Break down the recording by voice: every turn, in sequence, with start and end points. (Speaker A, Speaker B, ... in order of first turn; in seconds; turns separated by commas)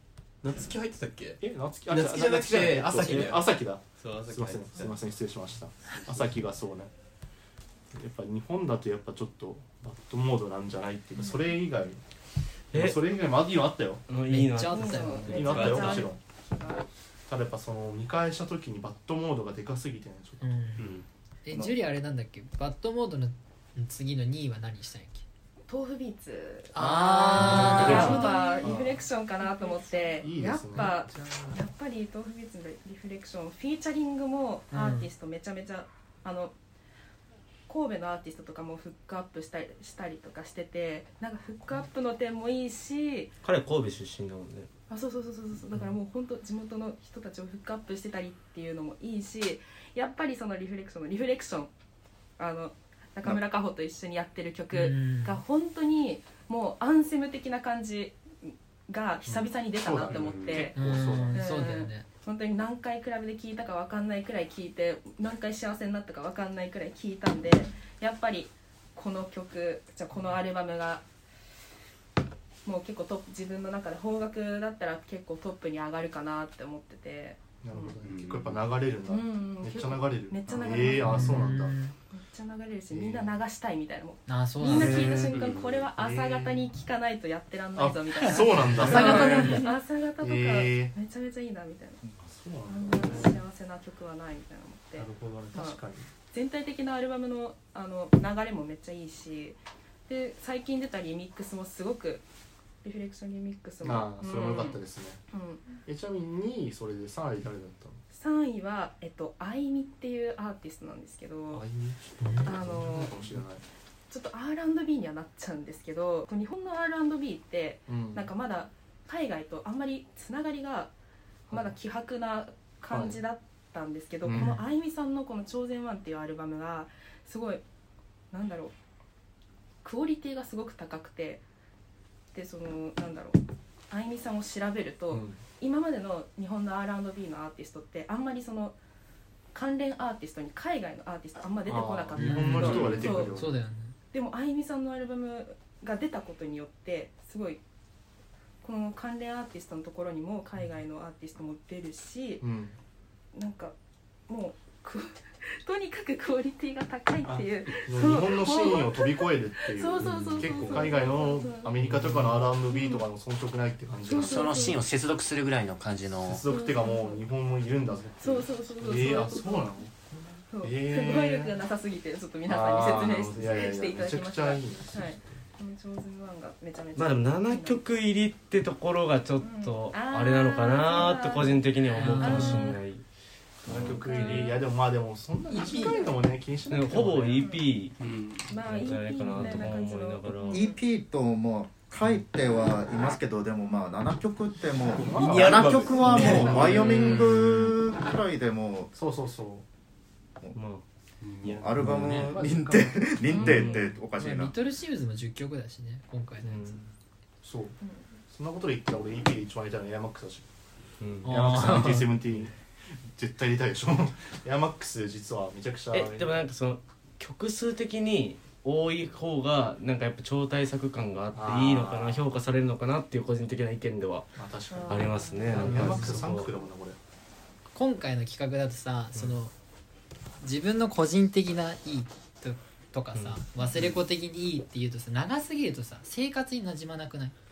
Speaker A: 0.4-5.0, Speaker B: 1.4-6.9, Speaker B: 7.9-12.0, Speaker C: 11.2-11.6, Speaker D: 12.7-13.0, Speaker B: 12.7-14.1, Speaker D: 14.1-15.6, Speaker E: 14.3-15.8, Speaker C: 14.7-16.8, Speaker B: 15.3-16.2, Speaker A: 15.3-16.0, Speaker B: 17.3-20.5, Speaker E: 20.4-20.9, Speaker A: 20.8-21.1, Speaker E: 21.4-25.2, Speaker C: 25.7-36.5, Speaker E: 26.8-28.6, Speaker B: 27.4-29.1, Speaker B: 30.2-31.6, Speaker E: 34.7-35.1, Speaker C: 37.7-43.3, Speaker D: 43.4-44.7, Speaker C: 44.9-51.7, Speaker C: 52.4-71.0, Speaker E: 54.7-55.4, Speaker B: 59.3-61.4, Speaker A: 60.1-60.7, Speaker E: 60.8-62.1, Speaker C: 72.7-78.0, Speaker B: 77.6-81.8, Speaker A: 78.0-78.6, Speaker C: 79.1-81.5, Speaker E: 81.0-82.0, Speaker C: 82.1-92.0, Speaker B: 82.9-83.4, Speaker E: 84.3-85.3, Speaker B: 84.6-86.7, Speaker A: 85.3-85.9, Speaker B: 87.8-89.7, Speaker E: 88.8-89.7, Speaker B: 90.2-90.9, Speaker B: 92.2-93.4, Speaker C: 92.7-102.2, Speaker B: 95.0-96.1, Speaker C: 102.8-105.8, Speaker B: 103.8-105.2, Speaker B: 105.8-108.0, Speaker C: 108.1-111.7, Speaker B: 111.5-113.6, Speaker E: 112.2-112.6, Speaker C: 112.4-113.3, Speaker C: 114.1-120.9, Speaker B: 117.9-118.3, Speaker B: 121.5-121.8, Speaker C: 121.5-127.6, Speaker B: 122.9-123.2, Speaker B: 124.2-124.6, Speaker C: 128.3-128.8, Speaker C: 129.8-131.4, Speaker C: 132.3-138.8, Speaker B: 135.1-135.4, Speaker C: 139.5-143.5, Speaker B: 141.7-143.5, Speaker E: 142.2-143.9, Speaker A: 142.6-143.2, Speaker C: 144.1-147.6, Speaker C: 148.6-152.4, Speaker B: 152.4-152.7, Speaker C: 153.3-153.8, Speaker C: 154.3-161.8, Speaker B: 157.2-164.7, Speaker C: 162.6-163.1, Speaker C: 164.0-164.8, Speaker F: 164.1-166.4, Speaker B: 166.2-169.9, Speaker C: 166.5-167.2, Speaker C: 168.2-169.9, Speaker C: 170.5-177.9, Speaker B: 170.6-171.6, Speaker B: 172.5-175.4, Speaker D: 176.9-183.0, Speaker C: 179.4-182.8, Speaker E: 181.9-182.8, Speaker D: 183.7-184.5, Speaker B: 183.7-187.4, Speaker C: 183.7-184.7, Speaker C: 185.5-186.2, Speaker D: 186.7-190.7, Speaker C: 187.3-187.7, Speaker A: 188.0-188.5, Speaker C: 188.4-190.8, Speaker G: 190.5-198.9, Speaker B: 194.9-197.3, Speaker A: 195.0-197.3, Speaker D: 196.7-197.2, Speaker B: 198.9-199.7, Speaker D: 200.6-200.8, Speaker A: 201.2-202.3, Speaker G: 201.4-204.5, Speaker B: 202.0-203.9, Speaker C: 203.3-203.8, Speaker E: 204.2-206.8, Speaker D: 206.4-206.8, Speaker B: 207.4-207.8, Speaker C: 207.8-208.1, Speaker B: 208.3-210.5, Speaker D: 211.0-211.3, Speaker E: 211.2-212.1, Speaker B: 211.2-216.4, Speaker D: 215.9-226.5, Speaker B: 221.3-222.2, Speaker B: 224.4-227.0, Speaker E: 225.6-226.2, Speaker E: 227.7-229.5, Speaker E: 230.4-237.3